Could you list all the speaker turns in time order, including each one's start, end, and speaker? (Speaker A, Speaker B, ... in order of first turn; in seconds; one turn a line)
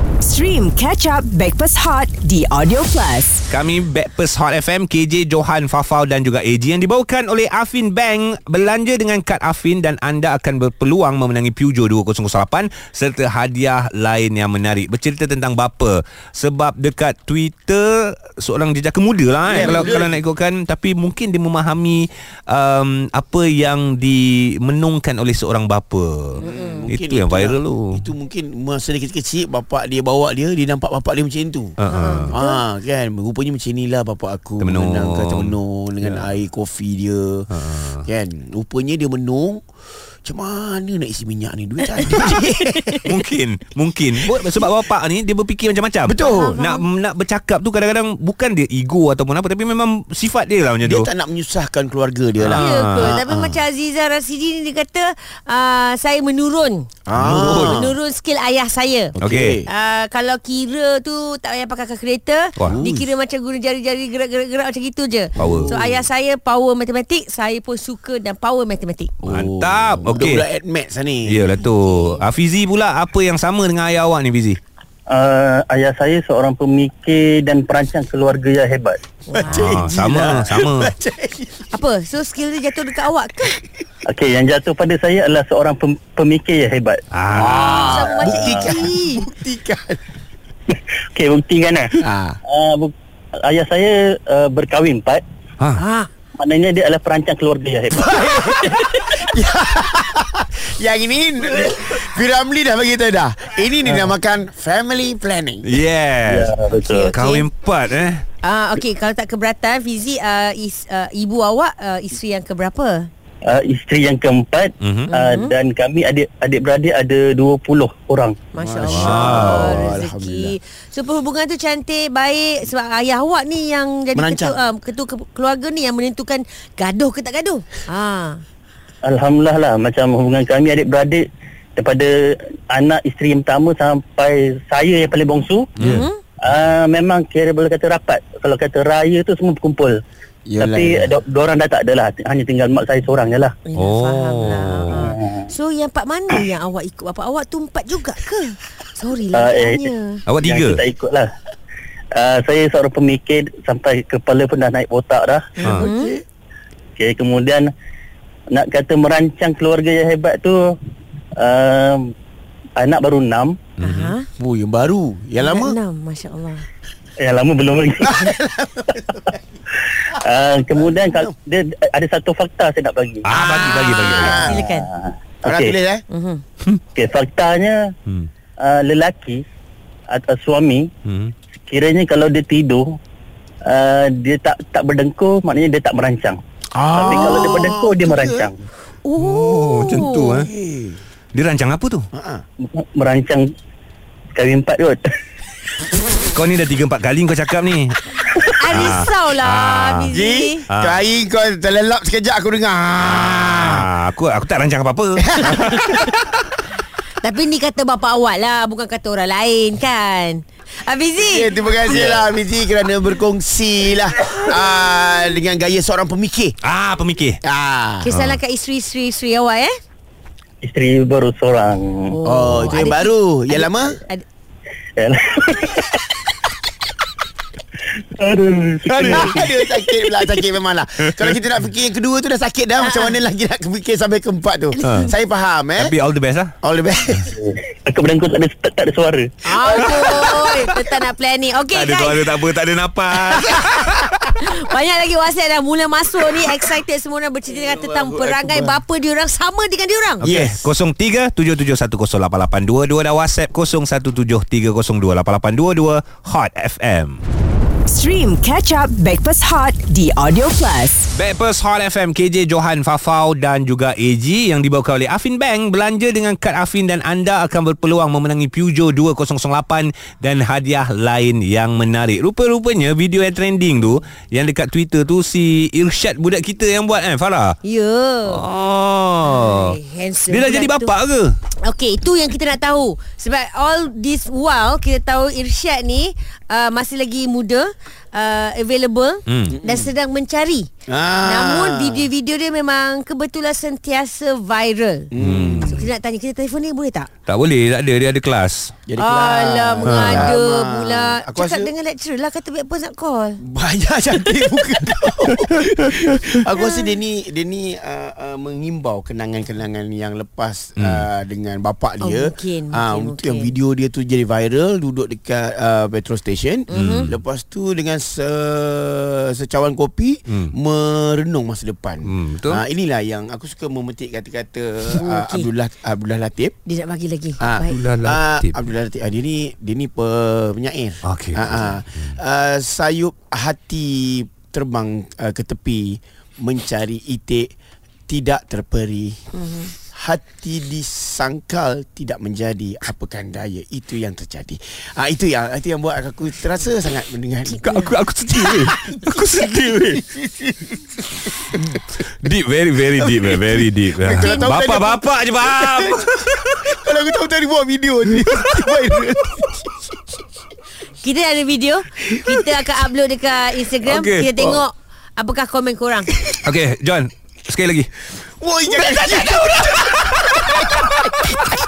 Speaker A: 0.2-3.4
Speaker B: 3.5-28.0
Speaker C: 19.4-20.2
Speaker D: 19.6-19.9
Speaker D: 26.4-26.9
Speaker C: 26.4-31.8
Speaker B: 31.8-32.3
Speaker D: 31.9-32.6
Speaker C: 32.3-37.5
Speaker B: 34.6-36.2
Speaker B: 37.5-38.0
Speaker C: 38.0-39.6
Speaker C: 40.2-43.1
Speaker D: 42.0-43.0
Speaker B: 43.0-51.1
Speaker C: 46.1-46.6
Speaker D: 46.2-46.8
Speaker C: 50.8-53.6
Speaker B: 52.4-53.1
Speaker D: 52.5-69.2
Speaker C: 57.1-57.9
Speaker B: 57.1-57.9
Speaker B: 59.2-59.6
Speaker C: 59.2-59.6
Speaker B: 62.6-63.0
Speaker C: 62.6-62.9
Speaker B: 65.4-65.8
Speaker C: 65.4-65.8
Speaker C: 69.2-71.6
Speaker B: 69.2-70.4
Speaker B: 71.3-74.6
Speaker D: 71.8-72.2
Speaker E: 75.1-79.0
Speaker D: 79.3-79.7
Speaker C: 79.4-81.8
Speaker B: 79.5-80.9
Speaker D: 81.7-83.6
Speaker E: 84.0-87.0
Speaker B: 87.1-88.0
Speaker C: 87.3-90.0
Speaker D: 87.8-89.2
Speaker E: 88.0-88.8
Speaker E: 90.7-95.2
Speaker C: 92.0-92.4
Speaker E: 96.4-99.3
Speaker C: 98.0-105.6
Speaker B: 105.6-106.5
Speaker E: 106.2-107.1
Speaker D: 106.7-107.5
Speaker B: 107.1-108.2
Speaker D: 108.4-113.1
Speaker E: 113.5-118.3
Speaker B: 114.8-115.1
Speaker D: 115.1-115.5
Speaker D: 118.5-128.4
Speaker C: 118.6-120.5
Speaker B: 118.8-119.8
Speaker C: 124.1-124.6
Speaker E: 129.0-131.2
Speaker E: 131.8-135.7
Speaker B: 135.8-136.1
Speaker D: 135.8-136.2
Speaker E: 136.4-140.0
Speaker C: 140.4-141.1
Speaker E: 140.6-143.6
Speaker D: 143.7-150.2
Speaker B: 143.7-145.1
Speaker E: 144.9-145.4
Speaker E: 149.3-151.3
Speaker B: 150.3-150.8
Speaker E: 152.1-155.5
Speaker C: 155.6-156.2
Speaker B: 155.6-155.9
Speaker D: 155.7-156.1
Speaker E: 157.0-157.7
Speaker E: 158.5-160.7
Speaker E: 161.4-162.1
Speaker E: 162.8-163.7
Speaker B: 163.8-164.1
Speaker D: 163.8-164.3
Speaker C: 164.3-165.8
Speaker D: 165.4-166.7
Speaker E: 167.2-168.3
Speaker C: 168.0-169.4
Speaker E: 169.9-173.3
Speaker C: 170.8-171.3
Speaker B: 173.2-174.4
Speaker C: 173.3-174.6
Speaker D: 173.6-174.9
Speaker E: 174.1-175.8
Speaker C: 175.4-176.0
Speaker D: 176.1-176.4
Speaker E: 176.9-177.8
Speaker E: 178.6-179.4
Speaker E: 180.1-180.9
Speaker B: 181.1-181.3
Speaker E: 181.7-183.0
Speaker E: 183.6-186.4
Speaker C: 186.7-188.5
Speaker E: 186.9-188.6
Speaker D: 187.1-187.5
Speaker D: 189.0-190.4
Speaker B: 189.2-190.5
Speaker C: 190.3-191.0
Speaker B: 191.3-192.1
Speaker C: 192.1-192.4
Speaker E: 192.7-193.4
Speaker E: 194.3-195.0
Speaker B: 196.2-200.1
Speaker D: 198.6-200.7
Speaker C: 200.1-203.9
Speaker B: 200.7-201.0
Speaker B: 203.0-206.1
Speaker C: 205.2-205.9
Speaker D: 205.6-206.0
Speaker D: 207.2-212.3
Speaker C: 211.2-216.6
Speaker B: 216.6-217.4
Speaker C: 217.4-218.1
Speaker D: 218.0-219.7
Speaker B: 218.0-218.4
Speaker E: 220.6-222.1
Speaker D: 222.1-224.2
Speaker C: 222.2-224.0
Speaker E: 225.0-226.2
Speaker E: 227.9-229.5
Speaker C: 228.9-235.9
Speaker B: 229.0-229.4
Speaker D: 232.8-233.2
Speaker D: 234.8-235.1
Speaker B: 234.8-235.1
Speaker B: 235.8-236.5
Speaker C: 236.6-237.3
Speaker E: 237.3-239.9
Speaker D: 239.4-242.4
Speaker B: 239.6-241.0
Speaker B: 241.7-244.4
Speaker D: 243.2-250.3
Speaker C: 247.5-248.8
Speaker B: 250.2-257.2
Speaker C: 250.2-250.7
Speaker A: 257.9-261.1
Speaker B: 261.1-277.6
Speaker D: 277.6-278.4
Speaker B: 278.2-281.3
Speaker D: 279.2-280.9
Speaker D: 281.6-290.7
Speaker B: 289.3-289.6
Speaker C: 289.6-289.9
Speaker C: 290.9-292.1
Speaker D: 291.2-295.1
Speaker C: 295.1-295.8
Speaker B: 295.1-295.9
Speaker D: 295.6-297.1
Speaker B: 297.3-298.7
Speaker C: 298.9-301.7
Speaker D: 299.0-303.4
Speaker B: 299.8-300.3
Speaker C: 303.4-326.6
Speaker D: 306.6-306.9
Speaker B: 310.8-311.0
Speaker D: 312.0-313.5
Speaker D: 316.7-317.1
Speaker B: 316.7-317.1
Speaker B: 320.3-320.5
Speaker B: 322.1-322.6
Speaker D: 324.9-325.5
Speaker D: 326.6-327.7
Speaker C: 327.4-337.5
Speaker B: 327.7-328.6
Speaker B: 331.0-332.2
Speaker C: 338.1-339.2
Speaker D: 339.4-339.7
Speaker C: 339.8-347.8
Speaker B: 347.6-350.0
Speaker D: 347.6-348.0
Speaker C: 348.3-349.2
Speaker C: 349.9-350.9
Speaker B: 351.7-356.8
Speaker C: 353.0-360.1
Speaker D: 354.2-354.6
Speaker D: 361.0-366.1
Speaker C: 362.1-362.5
Speaker B: 363.8-364.3
Speaker C: 364.4-364.6
Speaker B: 366.4-367.9
Speaker C: 368.4-370.9
Speaker B: 368.8-369.6
Speaker B: 370.5-370.9